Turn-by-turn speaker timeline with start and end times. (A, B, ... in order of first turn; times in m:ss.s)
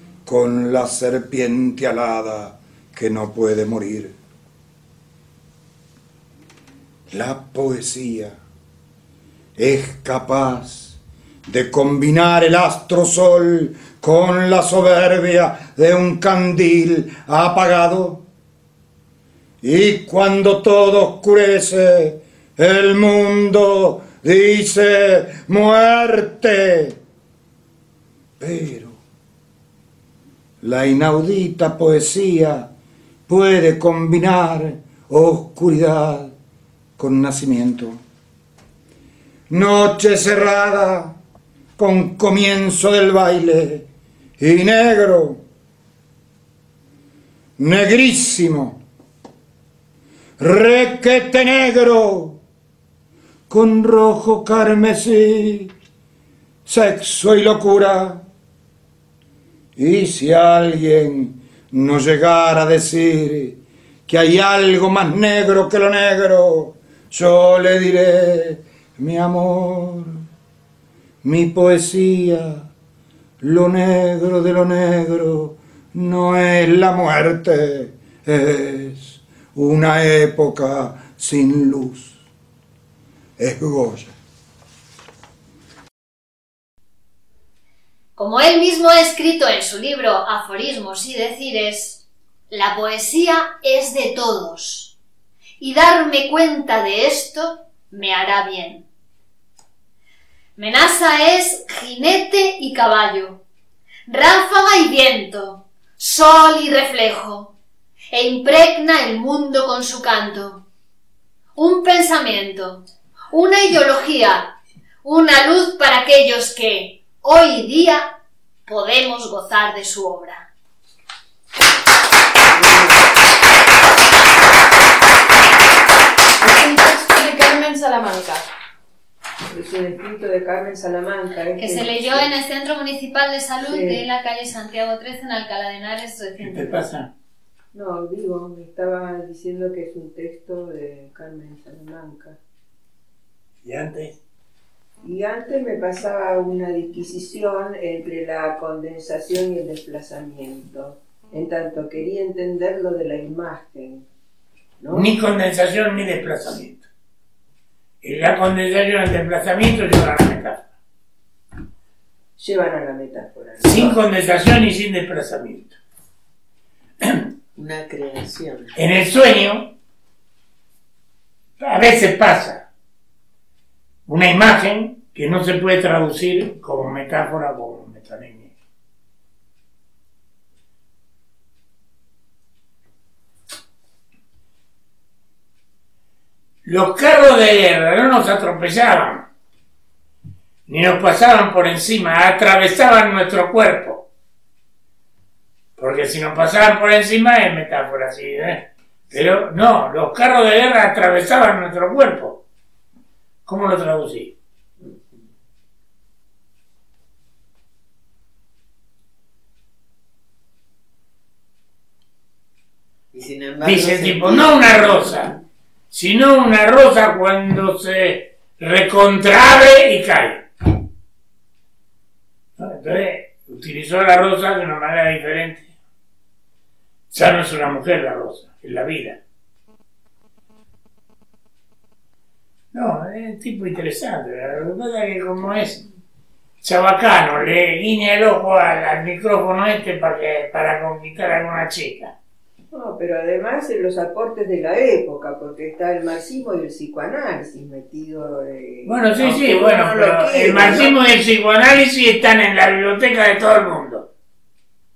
0:00.3-0:04.1 A
0:07.1-0:08.4 A
0:09.6-0:18.2 A
0:19.6-0:27.0 A
0:28.4-0:29.0 A
0:30.6-0:32.7 A
0:33.3-0:36.3 A
0:37.0-0:38.0 A
0:39.5-0:41.1 A
0:41.8-0:43.8 A
0:44.4-0:45.4 A
0:47.6-0:48.8 A
0:50.4-0:52.4 A
0:53.5-0:55.7 A
0:56.7-0:58.2 A
0:59.8-1:03.6 A
1:04.1-1:10.2 A
1:11.2-1:12.7 A
1:13.4-1:22.2 A
1:23.4-1:24.1 A
1:28.2-1:34.9 B
1:35.6-1:38.8 B
1:40.6-1:43.4 B
1:44.1-1:47.5 B
1:48.1-1:50.6 B
1:51.6-1:54.5 B
1:55.0-1:58.1 B
1:58.7-2:00.5 B
2:02.5-2:02.9 C
2:06.4-2:08.4 D
2:09.5-2:12.3 C
2:11.6-2:16.8 B
2:13.6-2:14.0 C
2:16.4-2:17.1 E
2:17.7-2:22.4 C
2:23.6-2:24.1 E
2:25.0-2:34.1 C
2:34.8-2:35.1 C
2:34.9-2:36.9 E
2:38.0-2:40.6 E
2:42.4-2:44.0 C
2:43.6-2:45.8 E
2:47.6-2:48.7 F
2:48.8-2:49.7 E
2:51.6-2:52.7 E
2:54.1-2:58.5 E
3:06.6-3:09.3 E
3:10.7-3:14.1 E
3:15.8-3:22.4 E
3:23.5-3:24.3 E
3:33.1-3:35.2 F
3:33.6-3:35.3 E
3:35.9-3:40.4 E
3:42.6-3:45.7 E
3:47.1-3:49.2 E
3:52.7-3:55.8 E
3:56.6-4:02.1 E
4:02.7-4:11.0 C
4:08.9-4:14.1 E